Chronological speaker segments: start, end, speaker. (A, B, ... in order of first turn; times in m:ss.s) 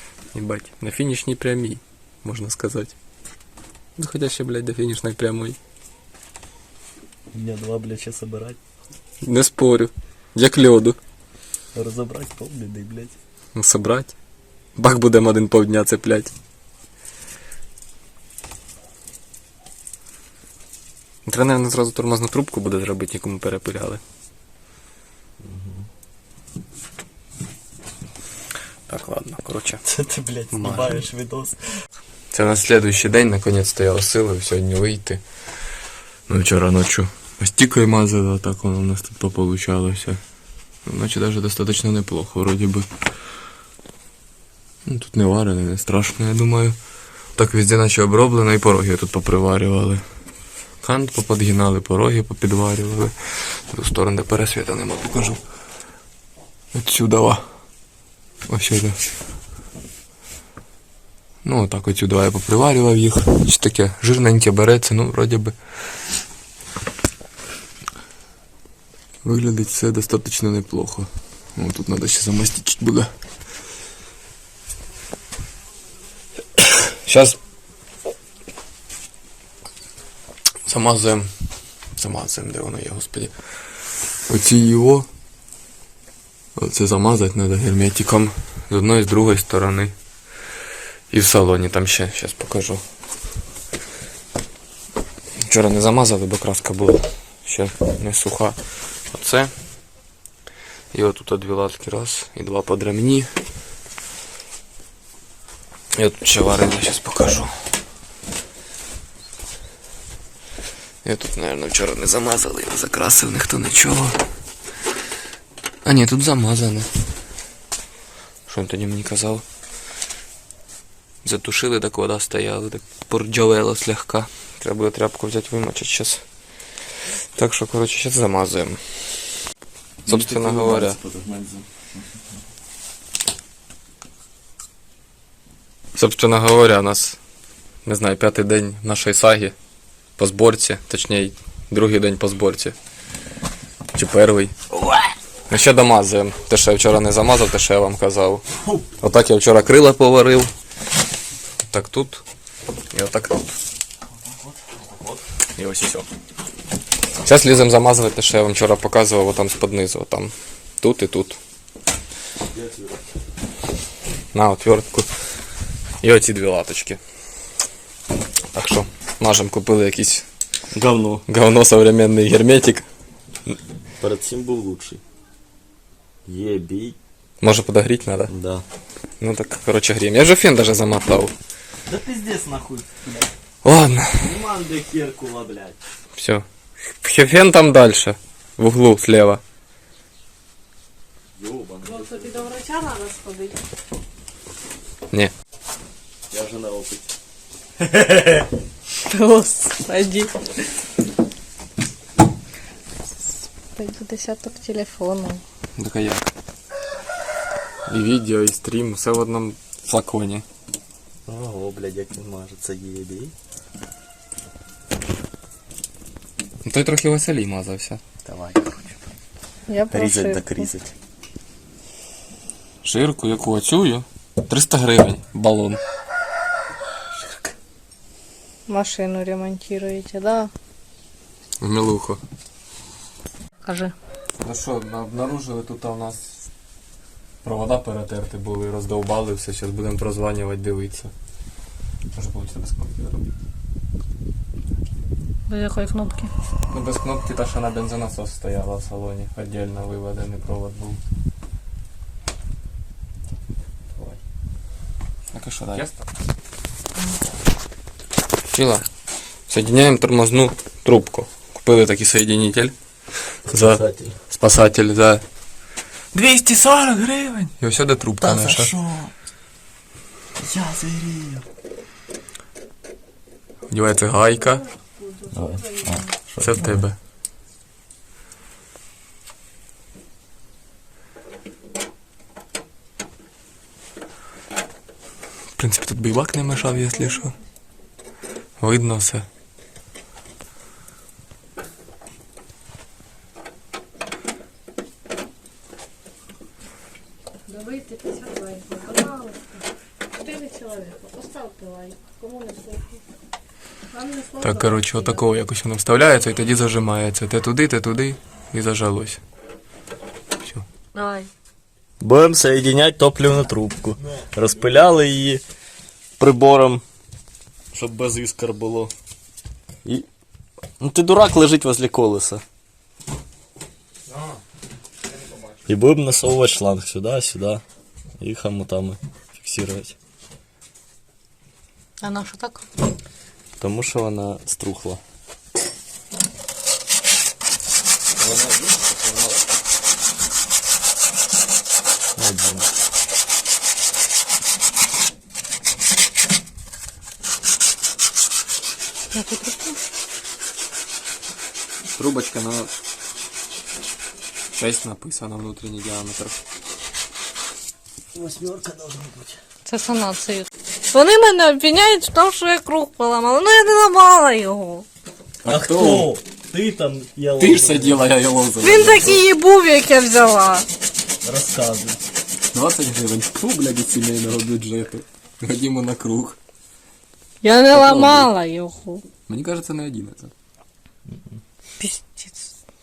0:00.3-0:02.9 A
0:04.0-0:05.6 A
0:07.3-0:08.6 B
0:09.2-0:11.0 A
0:11.8-0:13.2 B
0:13.6-0:14.1 A
0:14.8-0:16.3 A
0:21.3-0:24.0 A
0:25.4-0:25.9 B
0:28.9-0:29.8 A
0:29.8-0:31.8 B
0:30.5-0:31.0 A
0:32.3-0:35.2 A
0:36.3-0:40.2 A
0:40.8-0:42.9 A
0:44.9-0:46.8 A
0:47.4-0:50.0 A
0:50.8-0:55.4 A
0:56.7-0:57.4 A
0:58.5-0:59.0 A
1:01.4-1:05.5 A
1:09.2-1:13.1 A
1:16.9-1:17.4 A
1:20.7-1:21.3 A
1:22.0-1:23.3 A
1:24.3-1:25.1 A
1:26.6-1:29.9 A
1:31.1-1:32.8 A
1:35.4-1:38.6 A
1:39.1-1:39.5 A
1:40.9-1:43.3 A
1:46.0-1:47.5 A
1:51.0-1:54.2 A
1:55.8-1:56.9 A
1:58.5-1:59.4 A
2:01.2-2:06.2 A
2:07.4-2:09.0 A
2:10.0-2:12.0 B
2:10.1-2:11.0 A
2:16.0-2:17.2 A
2:17.8-2:19.5 A
2:20.2-2:22.8 A
2:23.9-2:24.6 A
2:25.5-2:28.4 A
2:29.0-2:30.5 A
2:31.7-2:32.2 A
2:32.9-2:33.4 A
2:34.2-2:35.2 B
2:35.6-2:36.1 A
2:37.2-2:41.4 A
2:42.5-2:43.1 B
2:44.3-2:45.1 A
2:46.0-2:47.0 A
2:48.5-2:50.2 A
2:50.7-2:51.2 B
2:51.3-2:52.9 A
2:54.0-2:55.0 B
2:56.3-2:57.0 B
2:57.4-2:58.3 A
2:58.3-2:58.6 B
2:59.2-3:01.3 A
3:01.9-3:03.3 B
3:03.6-3:04.4 A
3:04.2-3:05.8 B
3:06.2-3:06.4 A
3:07.0-3:09.4 A
3:11.4-3:12.4 B
3:11.8-3:13.6 C
3:16.3-3:17.1 B
3:17.8-3:18.5 B
3:19.0-3:20.3 C
3:23.8-3:25.4 C
3:25.8-3:26.3 A
3:27.9-3:30.4 A
3:31.3-3:33.3 B
3:36.6-3:38.0 A
3:38.2-3:39.0 B
3:39.7-3:40.7 C
3:39.9-3:40.9 B
3:42.8-3:45.8 A
3:48.7-3:50.5 C
3:51.6-3:52.2 A
3:53.6-3:53.9 C
3:54.4-3:56.4 A
3:57.4-4:01.1 A
4:02.2-4:03.3 A
4:05.5-4:06.3 C
4:06.7-4:11.0 A
4:14.0-4:14.2 A
4:15.3-4:15.9 A
4:18.5-4:18.8 A
4:19.5-4:22.7 A
4:23.4-4:25.2 A
4:23.5-4:24.2 B
4:26.1-4:28.7 A
4:28.2-4:29.1 B
4:30.4-4:31.5 B
4:33.7-4:34.6 A
4:34.4-4:36.1 C
4:35.3-4:36.8 B
4:36.4-4:37.0 A
4:45.6-4:47.3 A
4:48.6-4:49.3 A
4:57.5-5:03.0 C
5:03.9-5:05.2 C
5:04.4-5:09.2 A
5:10.9-5:11.3 C
5:12.0-5:15.4 B
5:16.2-5:16.8 B
5:17.7-5:18.9 B
5:20.8-5:22.4 B
5:24.1-5:24.4 A
5:25.7-5:27.6 B
5:28.2-5:30.0 B
5:32.0-5:32.7 C
5:33.6-5:35.0 B
5:38.2-5:39.4 A
5:42.2-5:42.7 B
5:49.1-5:49.8 C
5:51.9-5:52.8 A
5:54.5-5:56.4 A
5:58.1-5:59.4 B
5:59.7-6:04.9 C
6:05.4-6:06.1 A
6:05.4-6:08.0 B
6:07.4-6:09.2 A
6:08.6-6:10.7 C
6:11.2-6:12.0 B
6:12.5-6:16.4 A
6:17.4-6:19.0 C
6:17.7-6:18.3 A
6:19.3-6:20.3 A
6:21.1-6:21.4 B
6:21.8-6:22.5 C